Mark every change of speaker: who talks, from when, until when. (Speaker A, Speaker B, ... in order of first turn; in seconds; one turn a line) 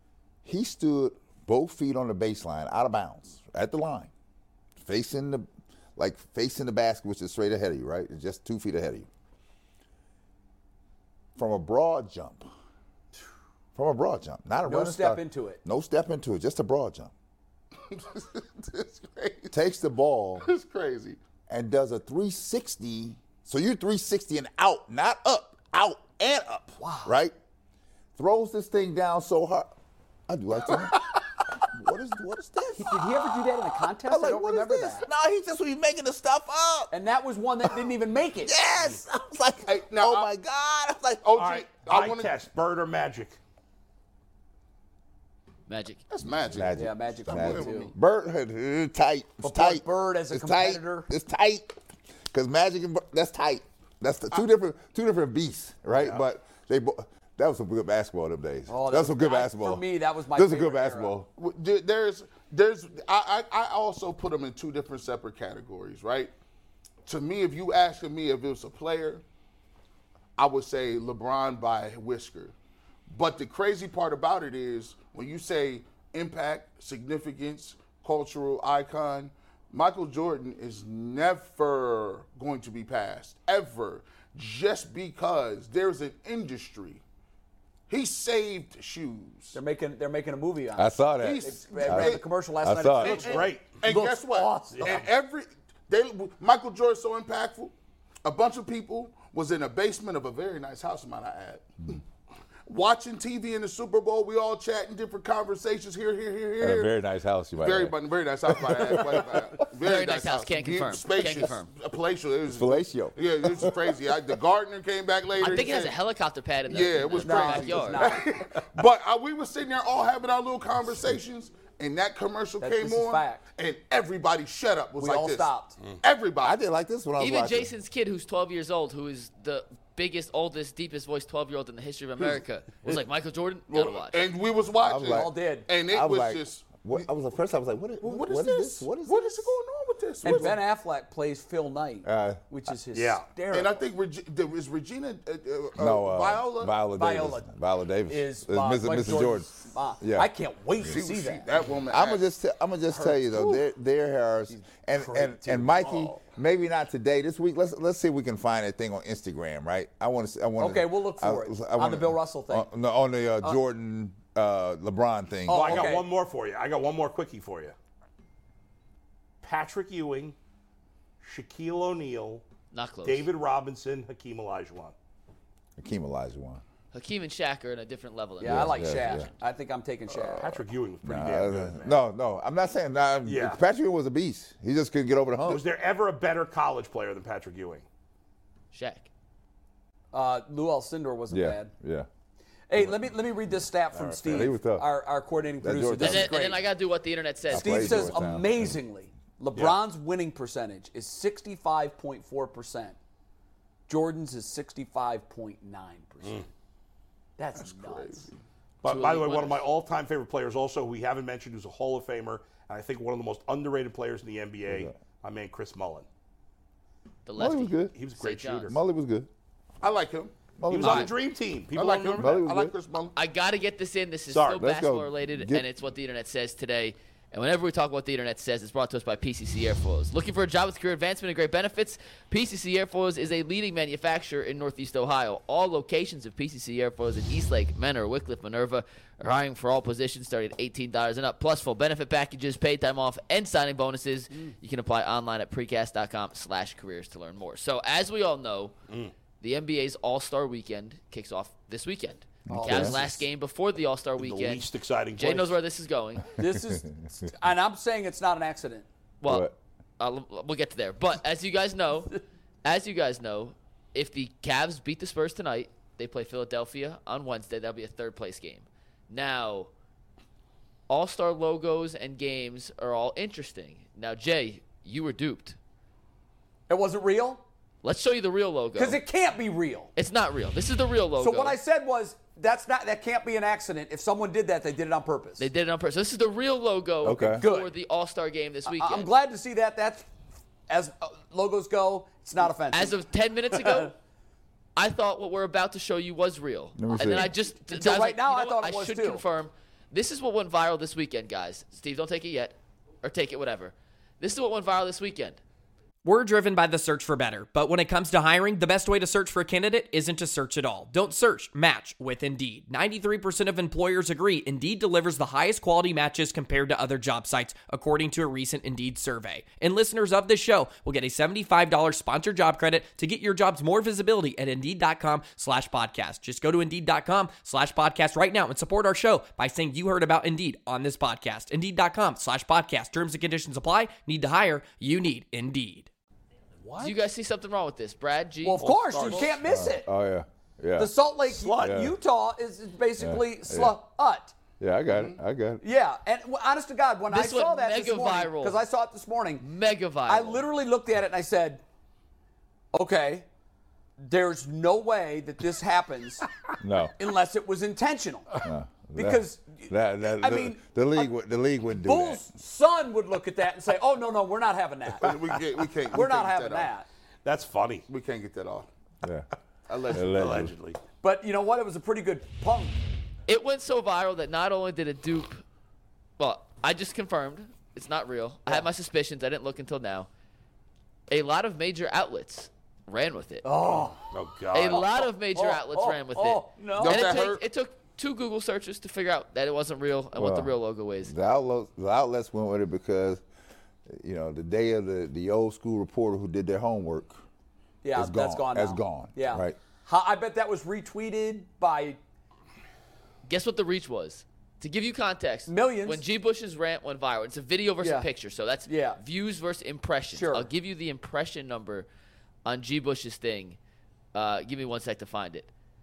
Speaker A: 0.4-4.1
Speaker A: 4.8-9.1
Speaker A: 11.3-12.5
Speaker A: 13.7-17.1
Speaker B: 14.6-15.6
Speaker C: 17.9-19.5
Speaker A: 19.5-20.5
Speaker C: 20.4-21.2
Speaker A: 21.5-27.3
Speaker B: 26.8-27.1
Speaker A: 28.1-29.7
Speaker A: 30.3-31.0
Speaker A: 31.7-33.0
Speaker B: 32.7-35.0
Speaker A: 34.0-36.9
Speaker B: 36.9-38.5
Speaker A: 38.4-41.3
Speaker C: 39.6-40.3
Speaker C: 41.2-42.3
Speaker D: 41.4-43.4
Speaker E: 45.7-46.0
Speaker C: 46.1-47.9
Speaker A: 46.5-51.8
Speaker B: 46.7-47.9
Speaker B: 49.4-51.1
Speaker A: 52.3-61.3
Speaker B: 58.7-61.1
Speaker C: 61.4-66.3
Speaker C: 67.0-69.2
Speaker C: 70.4-72.5
Speaker C: 73.1-87.0
Speaker C: 87.9-89.6
Speaker B: 89.5-95.0
Speaker A: 90.8-93.3
Speaker C: 91.2-92.3
Speaker C: 93.0-102.0
Speaker D: 93.0-93.7
Speaker D: 94.8-95.0
Speaker C: 102.7-107.0
Speaker A: 106.6-109.7
Speaker C: 107.5-116.0
Speaker E: 109.7-111.6
Speaker A: 112.5-114.1
Speaker E: 115.4-118.2
Speaker C: 116.6-125.5
Speaker B: 117.2-118.2
Speaker B: 122.6-123.4
Speaker B: 125.0-125.7
Speaker C: 126.0-126.6
Speaker A: 126.4-127.7
Speaker E: 127.2-134.2
Speaker C: 133.7-137.0
Speaker A: 134.8-135.3
Speaker B: 135.1-135.7
Speaker A: 135.9-139.5
Speaker C: 138.0-140.6
Speaker B: 140.2-143.8
Speaker A: 140.2-140.6
Speaker A: 142.0-142.4
Speaker D: 142.9-143.2
Speaker C: 143.5-146.8
Speaker A: 145.8-150.3
Speaker B: 146.9-147.5
Speaker B: 148.1-151.5
Speaker C: 150.8-152.2
Speaker A: 151.9-166.0
Speaker C: 153.0-153.6
Speaker B: 160.6-162.7
Speaker B: 165.5-166.1
Speaker D: 165.5-167.7
Speaker D: 169.4-170.3
Speaker D: 171.2-172.4
Speaker E: 172.7-173.3
Speaker D: 173.0-174.9
Speaker A: 175.8-176.6
Speaker E: 176.9-179.3
Speaker B: 178.4-180.6
Speaker A: 178.4-179.3
Speaker D: 180.4-182.0
Speaker A: 181.0-185.6
Speaker D: 183.2-183.6
Speaker D: 185.4-187.8
Speaker E: 188.7-189.1
Speaker B: 190.1-191.7
Speaker A: 191.3-192.1
Speaker B: 192.7-196.6
Speaker A: 192.8-193.1
Speaker A: 194.0-194.8
Speaker A: 195.6-196.3
Speaker E: 195.9-198.4
Speaker A: 197.5-198.8
Speaker B: 197.5-202.9
Speaker D: 199.5-199.8
Speaker B: 203.9-206.5
Speaker B: 207.4-208.3
Speaker C: 207.6-208.3
Speaker D: 208.8-216.1
Speaker E: 208.8-209.7
Speaker A: 214.7-214.9
Speaker E: 217.2-218.7
Speaker A: 217.4-217.9
Speaker D: 217.9-218.8
Speaker A: 218.7-219.3
Speaker C: 219.8-220.3
Speaker A: 220.6-221.1
Speaker D: 220.7-222.4
Speaker E: 220.8-221.1
Speaker C: 221.7-223.2
Speaker A: 222.2-222.7
Speaker E: 223.1-248.7
Speaker D: 224.3-224.6
Speaker A: 224.6-225.6
Speaker E: 249.4-256.4
Speaker A: 252.5-253.0
Speaker B: 252.5-253.2
Speaker D: 254.2-255.6
Speaker B: 256.4-258.9
Speaker A: 256.5-257.3
Speaker E: 259.2-269.7
Speaker A: 259.2-259.5
Speaker E: 270.9-275.6
Speaker B: 276.7-277.4
Speaker E: 277.8-279.0
Speaker B: 278.7-279.9
Speaker E: 279.9-281.6
Speaker B: 281.2-285.5
Speaker E: 285.4-289.1
Speaker A: 287.0-287.4
Speaker B: 287.4-287.7
Speaker B: 288.6-290.1
Speaker B: 290.7-293.0
Speaker E: 292.7-293.9
Speaker B: 293.5-293.9
Speaker E: 294.8-305.4
Speaker A: 296.8-297.3
Speaker B: 297.4-299.2
Speaker B: 306.1-319.6
Speaker F: 306.6-308.6
Speaker F: 309.4-310.2
Speaker F: 312.7-313.0
Speaker F: 313.8-314.8
Speaker F: 315.7-328.3
Speaker B: 320.2-323.6
Speaker B: 324.1-328.4
Speaker F: 328.9-330.4
Speaker B: 330.5-330.8
Speaker B: 331.5-332.4
Speaker B: 334.7-335.8
Speaker B: 336.6-336.9
Speaker E: 336.8-339.3
Speaker B: 338.4-339.9
Speaker D: 338.6-339.4
Speaker A: 339.4-340.9
Speaker B: 340.8-344.3
Speaker D: 341.3-341.7
Speaker A: 341.6-341.9
Speaker A: 343.0-343.8
Speaker A: 344.6-345.6
Speaker C: 344.9-345.2
Speaker B: 345.6-349.5
Speaker E: 347.1-348.6
Speaker E: 349.4-350.4
Speaker B: 350.1-351.6
Speaker B: 352.7-353.2
Speaker B: 354.0-356.3
Speaker A: 356.6-356.9
Speaker B: 357.0-361.1
Speaker A: 358.4-362.2
Speaker B: 361.8-365.2
Speaker C: 365.0-366.7
Speaker B: 365.9-366.9
Speaker D: 367.2-367.9
Speaker C: 367.9-368.7
Speaker C: 369.7-370.5
Speaker A: 369.9-370.5
Speaker D: 370.1-370.8
Speaker B: 371.0-372.8
Speaker E: 373.3-375.4
Speaker E: 376.2-380.1
Speaker E: 381.1-383.4
Speaker B: 383.4-387.3
Speaker D: 384.1-384.9
Speaker E: 384.5-391.1
Speaker C: 386.8-387.4
Speaker A: 390.1-393.2
Speaker A: 393.9-397.2
Speaker B: 397.8-402.0
Speaker A: 397.9-399.6
Speaker E: 403.2-411.9
Speaker B: 405.5-406.0
Speaker B: 407.8-408.1
Speaker B: 408.6-409.0
Speaker B: 410.1-410.5
Speaker E: 412.4-413.6
Speaker E: 414.1-415.5